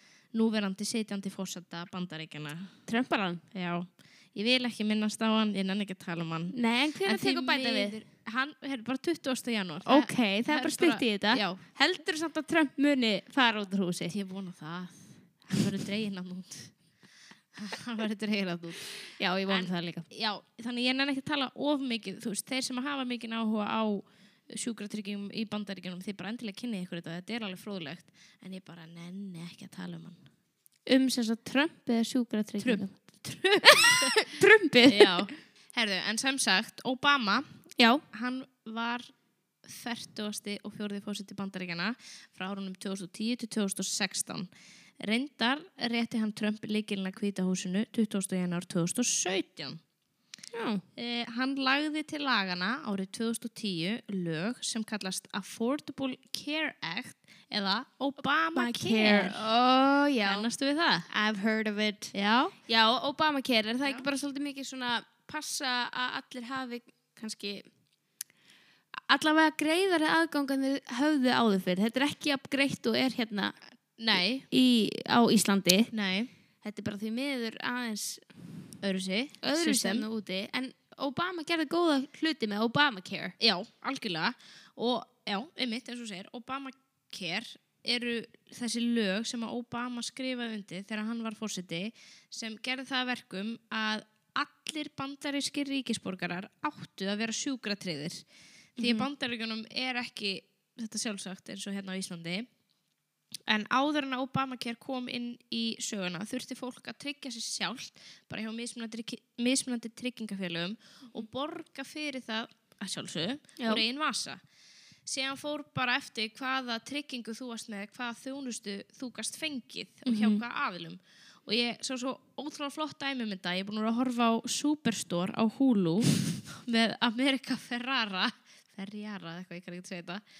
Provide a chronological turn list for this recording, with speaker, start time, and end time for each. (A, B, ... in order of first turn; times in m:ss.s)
0:00.3-0:02.8 A
0:02.9-0:03.4 B
0:03.5-0:11.6 A
0:06.5-0:07.9 B
0:09.8-0:14.1 B
0:14.1-0:16.8 A
0:17.5-0:30.2 A
0:19.2-0:20.1 B
0:30.8-0:32.9 B
0:32.6-0:34.2 A
0:33.6-0:35.2 B
0:34.8-0:37.4 A
0:37.8-0:38.0 B
0:38.1-0:39.1 A
0:39.6-0:44.5 A
0:45.0-0:49.8 A
0:50.5-0:50.8 B
0:51.0-0:59.5 A
0:58.5-1:00.5 B
1:00.2-1:01.1 A
1:01.1-1:02.1 B
1:02.1-1:02.6 A
1:02.6-1:07.6 B
1:09.0-1:13.5 B
1:14.0-1:14.4 A
1:14.5-1:15.9 B
1:15.9-1:16.3 A
1:16.6-1:18.3 B
1:18.8-1:20.1 A
1:19.4-1:23.3 B
1:23.4-1:38.2 A
1:38.8-1:42.5 A
1:38.8-1:39.1 B
1:43.5-1:54.4 A
1:55.1-2:10.2 A
2:00.1-2:00.4 B